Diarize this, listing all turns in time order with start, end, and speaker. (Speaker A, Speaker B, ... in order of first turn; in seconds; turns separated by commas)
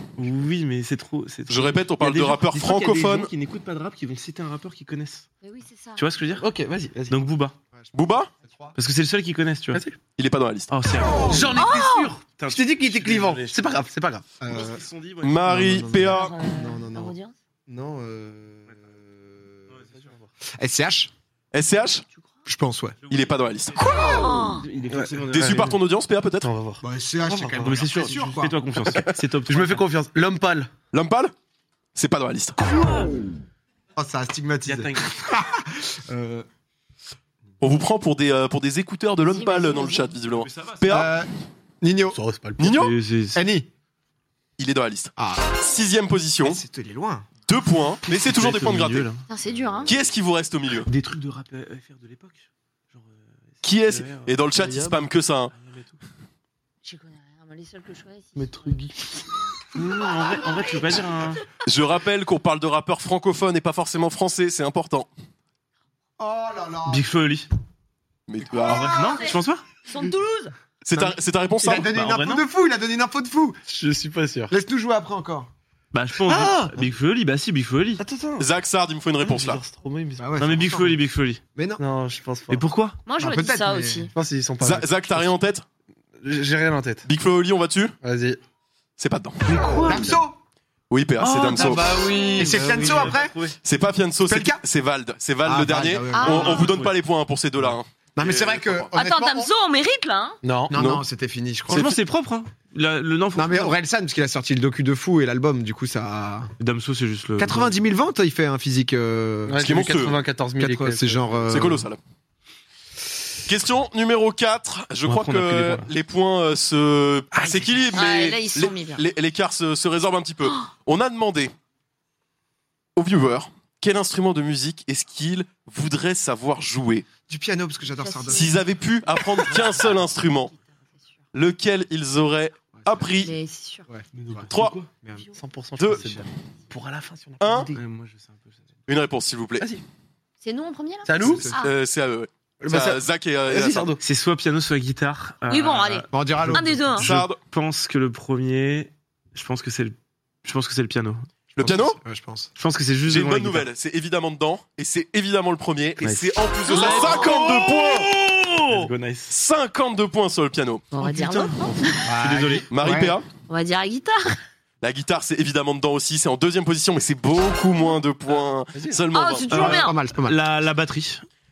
Speaker A: 0.2-5.2, Speaker B: 1.5-3.3, Speaker C: 5.4-6.0, Speaker A: 6.0-6.5, Speaker D: 6.4-7.3, Speaker A: 7.1-7.5, Speaker E: 7.7-8.8, Speaker B: 7.9-8.3, Speaker A: 8.8-9.8, Speaker B: 10.2-10.7, Speaker A: 10.7-11.6, Speaker D: 11.2-14.2, Speaker C: 11.5-12.1, Speaker A: 12.2-13.6, Speaker E: 14.4-14.8, Speaker A: 14.5-15.6, Speaker B: 15.2-16.3, Speaker E: 15.5-17.1, Speaker C: 16.1-17.3, Speaker E: 17.7-19.7, Speaker A: 19.7-20.0, Speaker E: 20.6-21.1, Speaker B: 21.5-22.0, Speaker E: 22.4-23.0, Speaker B: 23.1-23.8, Speaker C: 23.8-24.6, Speaker A: 24.4-25.8, Speaker D: 24.9-25.7, Speaker B: 25.3-26.5, Speaker D: 26.4-27.9, Speaker E: 26.8-28.6, Speaker A: 27.6-29.8, Speaker D: 28.9-30.7, Speaker B: 30.9-31.3, Speaker B: 31.9-32.6, Speaker E: 34.0-36.5, Speaker A: 34.6-35.1, Speaker B: 37.6-41.1, Speaker C: 39.2-40.1, Speaker A: 40.4-41.1, Speaker E: 40.9-41.3, Speaker E: 41.8-42.2, Speaker D: 42.1-42.8, Speaker B: 42.6-42.9, Speaker A: 42.7-43.4, Speaker E: 43.3-43.7, Speaker B: 44.6-46.6, Speaker E: 45.2-45.5, Speaker E: 46.4-47.3, Speaker B: 47.5-49.1, Speaker A: 48.1-49.2, Speaker C: 49.3-50.0, Speaker B: 49.9-50.9, Speaker A: 50.8-54.4, Speaker B: 53.6-55.5, Speaker D: 54.6-55.0, Speaker A: 55.5-56.0, Speaker C: 56.8-58.7, Speaker D: 58.4-59.2, Speaker A: 59.7-61.5, Speaker B: 61.6-65.1, Speaker E: 66.2-67.0, Speaker A: 66.8-67.5, Speaker B: 68.3-69.2, Speaker A: 68.7-69.6, Speaker C: 68.9-70.5, Speaker B: 70.8-71.9, Speaker E: 71.6-73.6, Speaker A: 71.9-72.4, Speaker D: 73.7-74.5, Speaker E: 74.5-75.5, Speaker A: 75.9-78.0, Speaker D: 76.2-76.8, Speaker D: 78.0-78.5, Speaker B: 78.4-79.6, Speaker D: 79.2-80.6, Speaker E: 80.2-81.0, Speaker A: 80.4-81.4, Speaker E: 81.5-81.8, Speaker D: 81.8-82.7, Speaker A: 82.5-83.0, Speaker C: 83.0-84.1, Speaker E: 83.2-84.1, Speaker D: 84.1-85.3, Speaker B: 84.6-85.6, Speaker D: 86.2-87.0, Speaker B: 87.0-87.9, Speaker D: 88.0-88.4, Speaker B: 89.0-89.5, Speaker D: 89.5-90.2, Speaker A: 89.5-90.0, Speaker E: 89.7-90.4, Speaker B: 90.9-92.1, Speaker D: 91.2-93.2, Speaker A: 91.4-93.5, Speaker E: 92.4-93.3, Speaker B: 93.6-98.9, Speaker E: 94.3-94.6, Speaker E: 95.4-96.7, Speaker C: 96.1-96.7, Speaker A: 96.5-96.9, Speaker E: 98.2-99.5, Speaker C: 98.9-100.4, Speaker D: 100.4-100.8, Speaker E: 100.7-102.0, Speaker B: 100.7-101.0, Speaker A: 101.7-103.7, Speaker E: 103.3-106.5, Speaker A: 106.6-107.7, Speaker E: 107.4-109.6, Speaker D: 109.5-111.6, Speaker B: 109.6-110.2, Speaker E: 110.6-111.9, Speaker B: 111.5-112.0, Speaker B: 113.5-121.5, Speaker A: 115.0-115.9, Speaker D: 117.3-117.7, Speaker C: 117.9-119.0, Speaker B: 123.0-127.0, Speaker E: 127.3-128.6, Speaker C: 128.0-128.5, Speaker B: 128.3-130.5, Speaker B: 131.3-133.3, Speaker E: 132.8-133.1, Speaker C: 133.2-133.9, Speaker E: 133.9-134.5, Speaker A: 134.2-134.9, Speaker B: 134.5-134.8, Speaker E: 135.0-135.3, Speaker D: 135.3-137.8, Speaker B: 135.8-136.2, Speaker B: 137.4-137.7, Speaker A: 137.7-138.5, Speaker B: 138.9-139.7, Speaker C: 140.4-141.7, Speaker D: 141.0-141.5, Speaker E: 141.2-141.6, Speaker B: 141.5-143.9, Speaker D: 142.6-144.0, Speaker A: 144.0-151.3, Speaker C: 145.5-147.1, Speaker E: 146.1-146.9, Speaker B: 147.0-147.4, Speaker E: 151.6-152.5, Speaker B: 151.6-152.0, Speaker A: 152.6-153.7, Speaker B: 153.1-158.1, Speaker A: 156.0-159.3, Speaker C: 156.7-157.3, Speaker B: 159.3-160.9, Speaker C: 160.9-162.1, Speaker A: 161.0-162.7, Speaker E: 162.0-163.2, Speaker B: 162.7-163.3, Speaker C: 163.5-164.4, Speaker B: 164.8-169.6, Speaker D: 168.8-169.0, Speaker C: 169.1-169.9, Speaker A: 169.5-171.2, Speaker E: 169.5-170.4